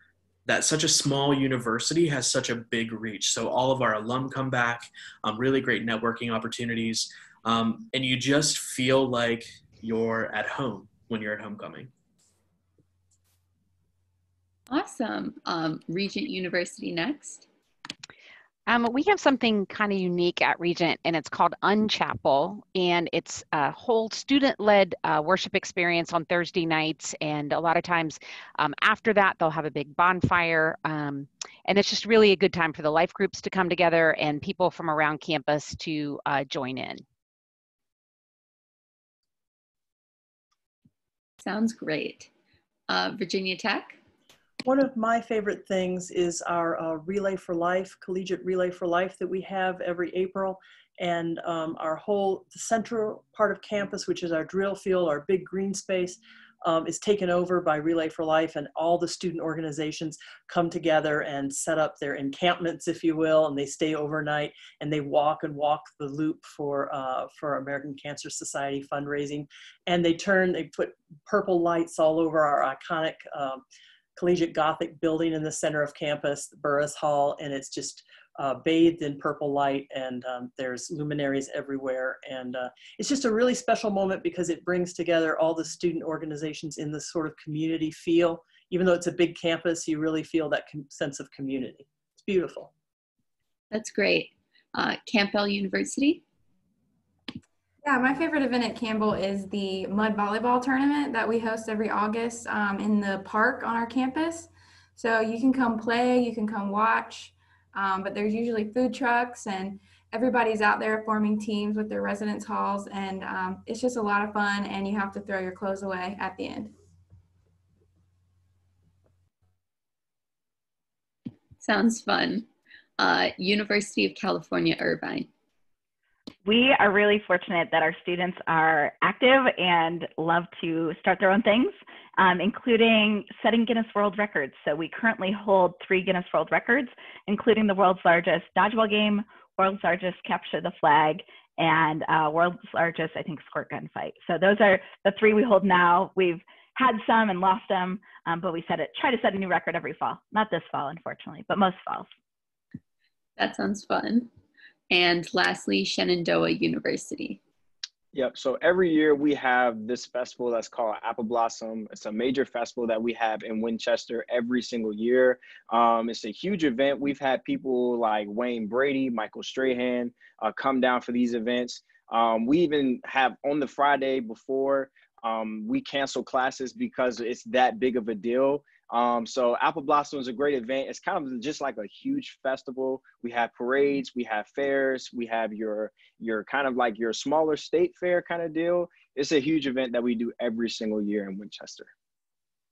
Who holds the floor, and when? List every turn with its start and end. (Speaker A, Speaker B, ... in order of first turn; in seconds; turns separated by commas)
Speaker A: 0.5-11.9, Speaker B: 14.7-17.5, Speaker C: 18.7-37.0, Speaker B: 41.4-42.3, Speaker B: 42.9-44.0, Speaker D: 44.6-73.6, Speaker D: 74.2-92.7, Speaker B: 93.7-96.2, Speaker E: 97.8-116.7, Speaker B: 121.6-125.3, Speaker F: 126.5-152.1, Speaker B: 153.4-154.3, Speaker B: 154.9-157.4, Speaker G: 158.1-191.9